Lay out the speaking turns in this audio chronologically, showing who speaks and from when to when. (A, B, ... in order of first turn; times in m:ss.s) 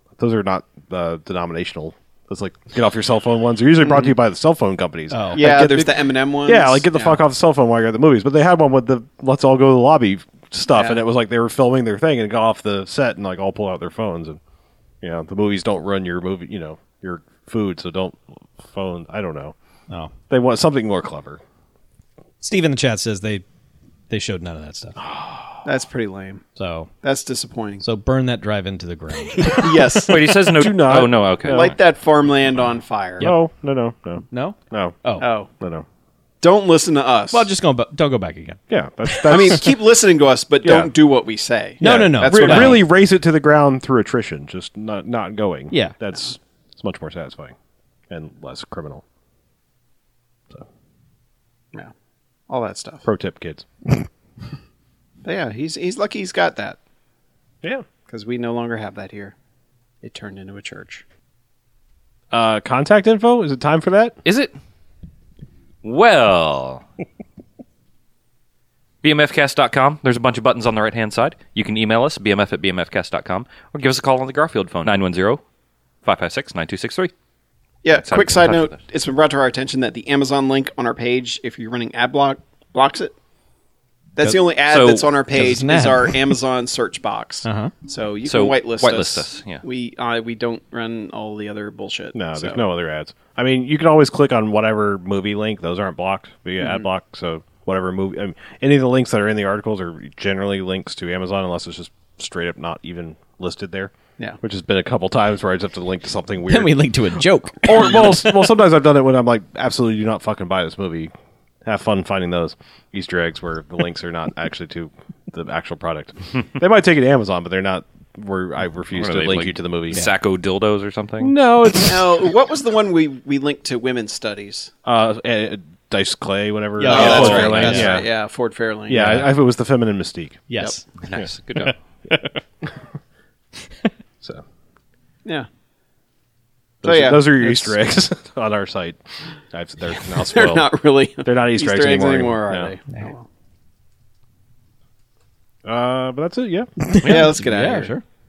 0:00.2-0:14.4 A
0:05.1-0:05.4 B
0:05.3-0:07.2 C
0:10.7-0:11.0 C
0:15.0-0:19.5 A
0:20.3-0:21.4 A
0:22.4-0:23.4 B
0:24.1-0:25.0 B
0:25.0-0:25.6 A
0:25.6-0:26.4 C
0:26.6-0:26.9 B
0:27.0-0:27.8 C
0:27.8-0:29.9 B
0:29.4-0:30.5 C
0:29.9-0:31.8 D
0:30.3-0:31.8 A
0:31.5-0:33.3 C
0:33.2-0:35.0 A
0:34.3-0:35.3 B
0:35.2-0:35.5 C
0:35.6-0:35.8 A
0:36.4-0:37.5 C
0:37.3-0:39.5 B
0:38.7-0:39.7 A
0:39.3-0:42.8 C
0:40.6-0:40.9 A
0:41.8-0:42.8 B
0:41.8-0:47.6 A
0:48.1-0:49.0 A
0:52.5-0:53.0 C
0:53.0-0:53.7 A
0:55.2-0:56.8 C
0:58.1-0:59.4 C
1:00.0-1:01.0 C
1:02.3-1:04.2 A
1:04.3-1:04.5 D
1:05.8-1:06.8 D
1:09.0-1:15.4 D
1:16.0-1:17.1 D
1:17.8-1:23.1 C
1:17.9-1:18.8 D
1:24.2-1:32.6 C
1:24.7-1:25.1 D
1:25.3-1:26.2 B
1:27.4-1:27.7 B
1:28.2-1:29.6 D
1:32.1-1:51.1 A
1:36.6-1:36.9 C
1:46.5-1:48.3 B
1:51.6-2:00.0 A
1:58.9-2:01.4 D
2:01.2-2:02.3 A
2:01.9-2:04.7 C
2:04.8-2:08.1 A
2:06.8-2:08.0 B
2:06.8-2:09.2 C
2:06.9-2:08.0 D
2:08.9-2:10.4 A
2:09.0-2:09.3 B
2:10.5-2:10.8 B
2:11.0-2:11.8 D
2:11.6-2:12.4 B
2:16.8-2:17.8 C
2:16.8-2:19.0 A
2:19.5-2:20.7 A
2:20.1-2:23.3 C
2:21.2-2:22.7 A
2:25.6-2:26.7 A
2:26.9-2:28.0 B
2:27.0-2:27.9 D
2:27.0-2:27.9 C